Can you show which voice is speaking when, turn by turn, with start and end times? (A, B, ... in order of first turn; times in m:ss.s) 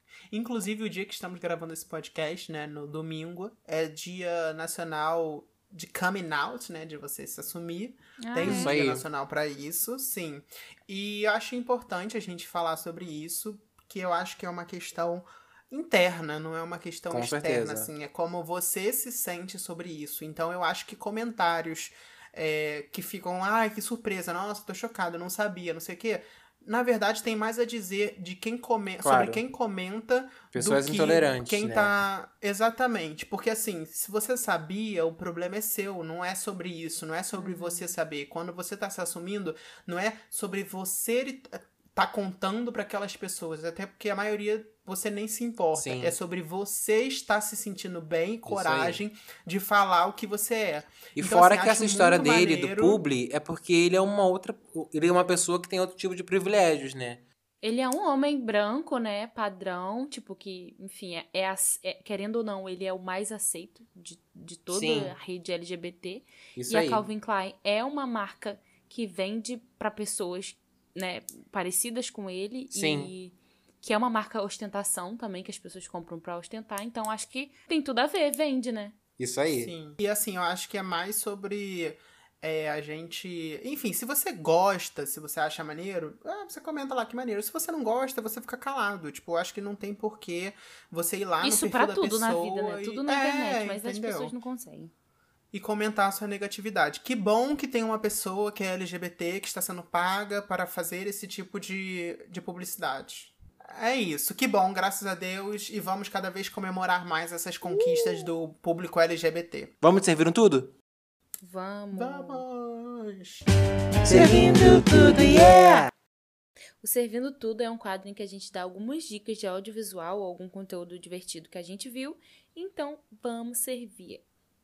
0:00.3-0:53.0 A
0:08.2-0:08.8 B
0:08.4-0:09.0 C
0:17.1-0:17.9 C
0:29.0-0:29.4 C
0:30.5-0:31.9 C
0:37.4-0:37.9 B
0:45.8-0:46.2 C
0:48.5-0:49.0 C
0:51.2-0:57.2 C
0:57.6-1:19.0 B
1:04.7-1:05.1 C
1:06.6-1:07.1 C
1:12.7-1:13.1 C
1:19.2-1:19.7 C
1:19.6-1:34.3 A
1:31.4-1:34.9 B
1:35.5-1:49.7 A
1:47.7-1:48.2 B
1:49.8-1:50.7 C
1:51.4-1:52.4 B
1:52.0-1:53.5 A
1:54.0-1:55.9 C
1:56.8-2:04.2 B